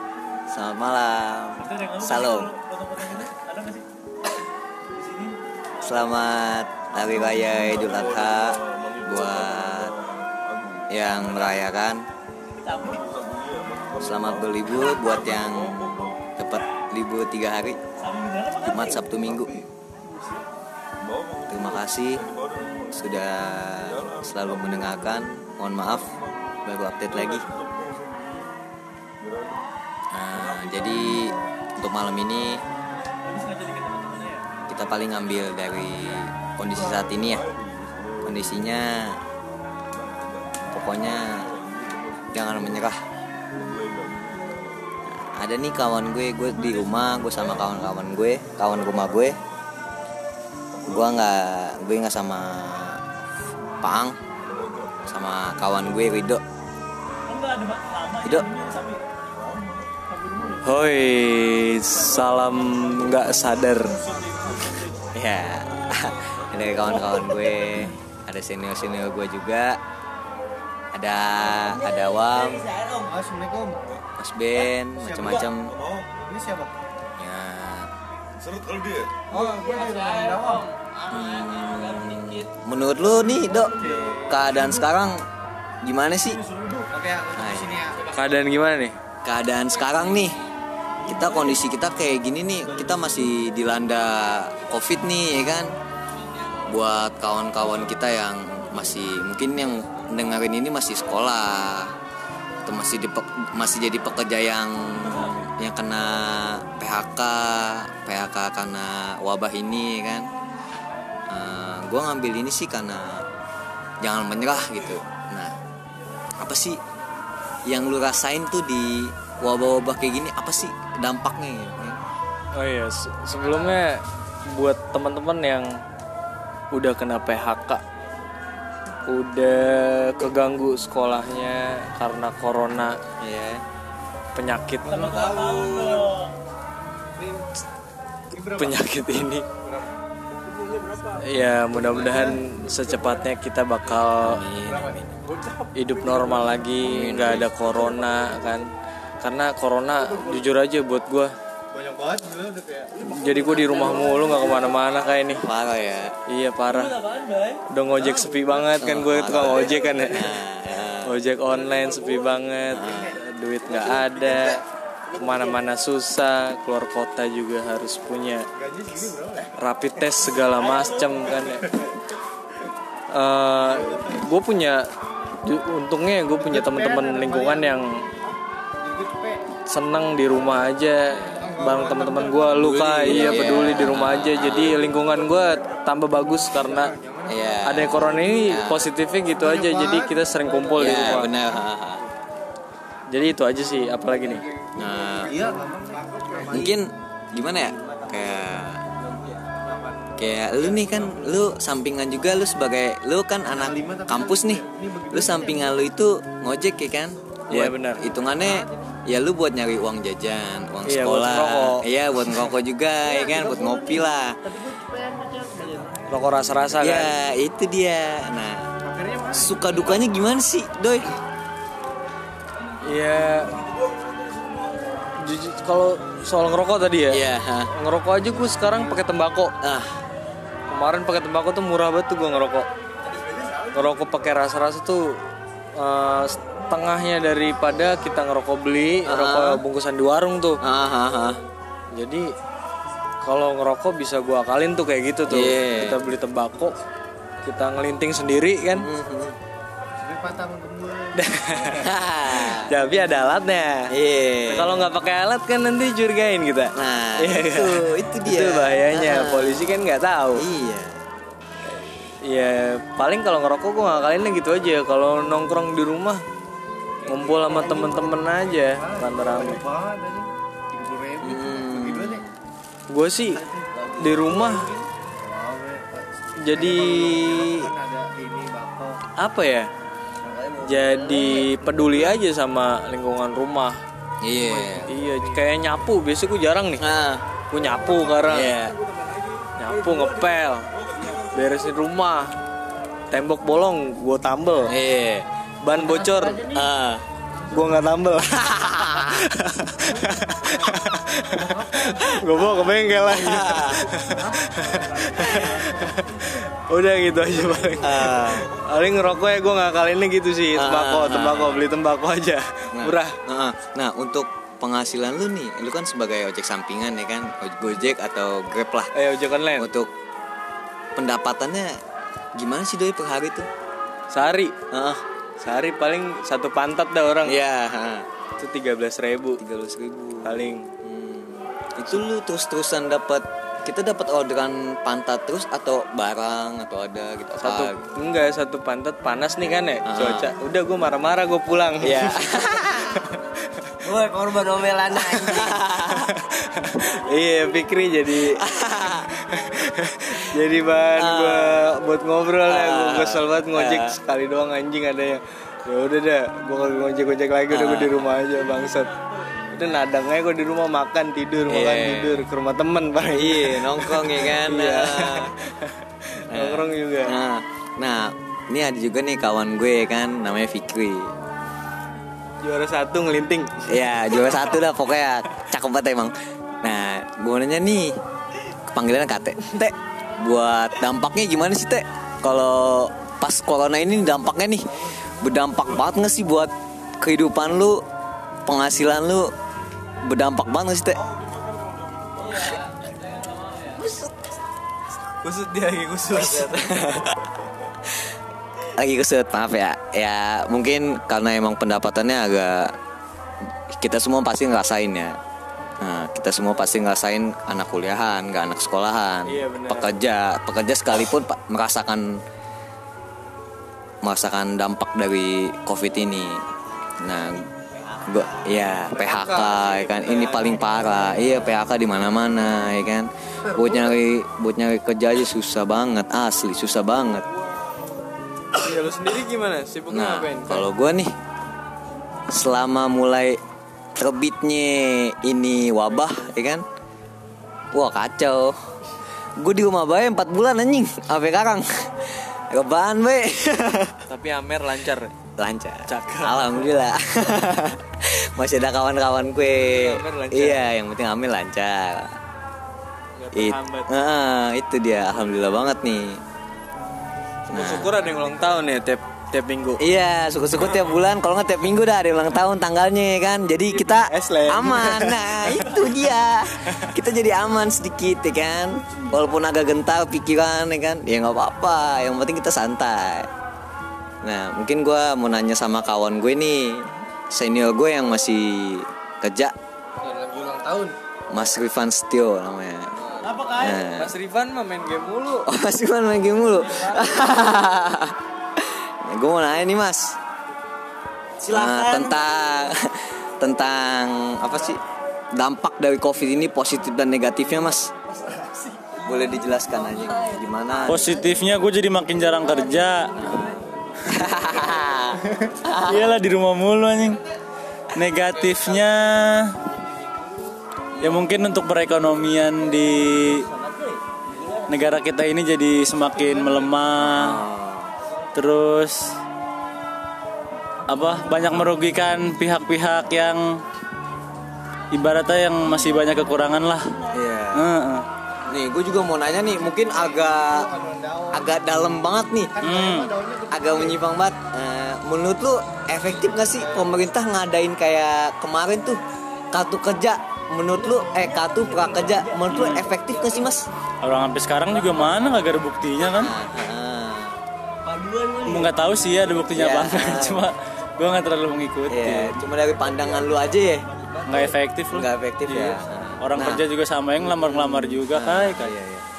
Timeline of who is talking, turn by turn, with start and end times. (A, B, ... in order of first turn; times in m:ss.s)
0:00.5-0:02.5 A
0:01.7-0:03.8 B
0:03.0-0:03.3 A
0:05.8-0:09.9 A
0:07.7-0:10.8 C
0:10.9-0:12.0 A
0:12.8-0:14.6 C
0:14.0-0:17.8 A
0:18.5-0:19.6 A
0:21.0-0:21.7 C
0:21.5-0:22.3 A
0:22.3-0:22.8 C
0:22.9-0:26.1 A
0:23.9-0:24.7 C
0:26.6-0:27.4 A
0:27.3-0:28.5 C
0:29.2-0:29.6 C
0:30.1-0:32.6 A
0:30.5-0:30.8 C
0:33.6-0:34.3 B
0:34.7-0:37.5 A
0:36.7-0:38.3 C
0:38.2-0:39.2 A
0:40.0-0:40.7 C
0:40.7-0:41.5 A
0:41.3-0:42.4 C
0:42.3-0:43.0 A
0:43.6-0:44.6 C
0:45.1-0:49.4 A
0:50.8-0:53.0 A
0:53.8-0:54.2 A
0:54.5-0:55.0 C
0:55.0-0:56.4 A
0:57.5-0:58.0 B
0:58.2-0:58.5 A
1:00.6-1:04.0 D
1:05.1-1:09.8 A
1:10.9-1:12.7 A
1:13.0-1:13.9 E
1:14.2-1:15.7 A
1:15.0-1:15.4 E
1:16.2-1:16.7 E
1:17.2-1:17.9 A
1:18.4-1:19.1 C
1:19.3-1:20.7 E
1:21.0-1:25.2 A
1:23.8-1:24.3 E
1:25.8-1:26.4 A
1:26.8-1:27.9 E
1:27.3-1:27.8 A
1:28.1-1:28.9 D
1:29.2-1:30.4 A
1:31.0-1:35.7 A
1:36.7-1:41.9 A
1:42.6-1:50.3 A
1:51.3-1:53.2 A
1:54.0-1:55.5 A
1:56.4-1:56.8 A
1:57.7-2:02.0 A
2:02.5-2:05.7 D
2:06.7-2:07.8 D
2:09.1-2:13.0 D
2:13.2-2:13.6 A
2:14.3-2:15.1 D
2:15.0-2:16.0 E
2:15.2-2:16.1 B
2:18.4-2:19.4 D
2:21.2-2:24.4 D
2:24.2-2:25.1 A
2:25.7-2:28.7 D
2:26.8-2:27.5 A
2:29.2-2:31.3 D
2:31.7-2:32.9 E
2:33.0-2:35.4 D
2:35.4-2:36.1 A
2:36.3-2:37.0 D
2:37.7-2:40.4 D
2:38.8-2:41.2 A
2:41.0-2:44.6 D
2:42.7-2:43.1 A
2:45.1-2:48.5 D
2:48.6-2:49.5 E
2:49.5-2:51.7 D
2:53.1-2:54.8 D
2:55.4-2:57.8 D
2:57.0-2:57.6 E
2:58.8-2:59.4 E
2:59.7-3:06.9 D
3:01.1-3:01.4 A
3:01.5-3:02.8 E
3:03.0-3:04.8 A
3:06.8-3:07.3 E
3:07.3-3:08.9 A
3:07.6-3:11.3 D
3:10.8-3:12.0 A
3:13.1-3:14.4 D
3:14.8-3:15.4 A
3:15.2-3:16.7 E
3:16.5-3:18.8 A
3:17.7-3:19.4 F
3:19.6-3:20.0 E
3:20.2-3:34.4 A
3:20.8-3:21.3 E
3:23.7-3:25.6 E
3:27.5-3:28.0 D
3:30.8-3:31.8 D
3:34.7-3:35.8 E
3:36.1-3:37.1 D
3:36.8-3:38.6 A
3:38.8-3:39.8 E
3:39.3-3:41.2 A
3:42.8-3:43.6 D
3:45.2-3:49.5 D
3:47.1-3:47.7 A
3:49.6-3:50.0 A
3:50.7-3:52.7 D
3:53.7-3:55.0 D
3:55.8-4:00.6 D
3:59.0-3:59.6 A
4:00.6-4:01.4 A
4:01.9-4:02.3 D
4:03.2-4:06.8 D
4:05.3-4:06.0 A
4:07.4-4:08.9 D
4:08.7-4:09.4 A
4:10.0-4:11.1 E
4:11.2-4:13.8 D
4:11.7-4:12.7 A
4:13.9-4:14.9 A
4:14.5-4:20.4 D
4:16.8-4:19.8 A
4:20.3-4:21.0 A
4:22.2-4:26.2 D
4:27.0-4:29.6 D
4:27.7-4:28.0 E
4:29.5-4:32.2 E
4:31.2-4:32.4 A
4:32.9-4:33.4 D
4:34.0-4:34.7 D
4:34.4-4:39.0 E
4:36.4-4:37.7 D
4:39.2-4:39.7 D
4:40.6-4:43.8 D
4:44.2-4:44.9 A
4:44.8-4:46.8 D
4:46.8-4:47.2 A
4:47.5-4:48.6 D
4:48.2-4:48.8 A
4:49.6-4:52.3 D
4:53.1-4:54.7 D
4:54.7-4:55.3 A
4:55.6-4:56.5 D
4:56.4-4:57.0 A
4:57.5-5:13.1 D
4:58.5-4:59.2 A
5:03.1-5:03.9 A
5:05.0-5:05.4 E
5:07.8-5:08.5 A
5:10.5-5:11.7 A
5:12.7-5:18.9 A
5:18.9-5:19.7 D
5:19.6-5:19.9 A
5:21.0-5:21.7 A
5:22.4-5:23.5 A
5:24.1-5:24.5 D
5:24.7-5:25.0 A
5:25.4-5:27.4 D
5:27.2-5:28.0 A
5:28.4-5:29.4 D
5:29.4-5:37.8 A
5:30.2-5:30.7 D
5:37.4-5:42.4 D
5:39.8-5:40.3 A
5:41.8-5:43.1 A
5:43.8-5:45.6 F
5:44.9-5:46.1 A
5:45.7-5:48.4 D
5:48.2-5:49.1 A
5:49.2-5:58.9 D
5:50.9-5:51.7 A
5:52.5-5:53.9 A
5:57.5-5:58.1 A
5:59.5-6:07.1 D
6:01.5-6:02.2 A
6:03.1-6:05.3 A
6:06.3-6:11.1 A
6:12.4-6:13.6 D
6:13.7-6:17.9 A
6:18.7-6:27.8 A
6:28.4-6:29.3 A
6:30.0-6:31.0 A
6:33.6-6:34.2 A
6:35.1-6:36.7 D
6:36.1-6:37.3 A
6:37.9-6:42.7 A
6:43.8-6:45.1 A
6:45.8-6:52.1 A
6:49.2-6:49.9 D
6:54.0-6:56.4 A
6:57.0-6:57.5 A
6:58.0-7:07.2 A
6:59.0-7:00.7 D
7:08.6-7:10.7 D
7:09.9-7:11.1 A
7:12.3-7:13.4 A
7:14.0-7:16.6 A
7:17.7-7:18.6 A
7:19.4-7:24.0 A
7:24.1-7:25.1 D
7:25.4-7:32.1 A
7:25.9-7:26.6 D
7:29.5-7:30.7 D
7:33.2-7:33.9 D
7:33.3-7:36.2 A
7:37.5-7:39.8 D
7:37.5-7:37.9 A
7:39.8-7:53.3 A
7:43.7-7:45.8 D
7:54.2-7:59.5 A
8:00.0-8:00.9 D
8:01.3-8:02.9 A
8:03.1-8:05.5 D
8:03.5-8:04.1 A
8:05.5-8:10.2 A
8:11.4-8:12.1 B
8:11.5-8:14.8 A
8:15.4-8:17.9 A
8:19.0-8:21.1 A
8:20.8-8:23.3 B
8:23.3-8:23.5 A
8:24.1-8:25.3 A
8:25.7-8:27.2 B
8:27.9-8:29.6 B
8:31.0-8:33.5 B
8:34.6-8:37.4 B
8:37.0-8:37.9 A
8:38.3-8:39.0 B
8:40.9-8:43.6 B
8:44.9-8:47.0 B
8:47.1-8:47.6 A
8:47.5-8:48.0 B
8:48.4-8:50.7 A
8:50.4-8:51.4 E
8:51.3-8:52.6 A
8:52.6-8:53.9 E
8:52.6-8:53.1 B
8:53.5-8:59.0 A
8:59.5-9:03.7 A
9:02.5-9:02.9 B
9:04.0-9:06.3 B
9:06.2-9:07.4 A
9:08.4-9:12.4 B
9:09.5-9:10.5 A
9:11.9-9:13.8 A
9:14.2-9:15.1 B
9:14.9-9:16.6 A
9:16.2-9:18.7 B
9:17.2-9:19.0 A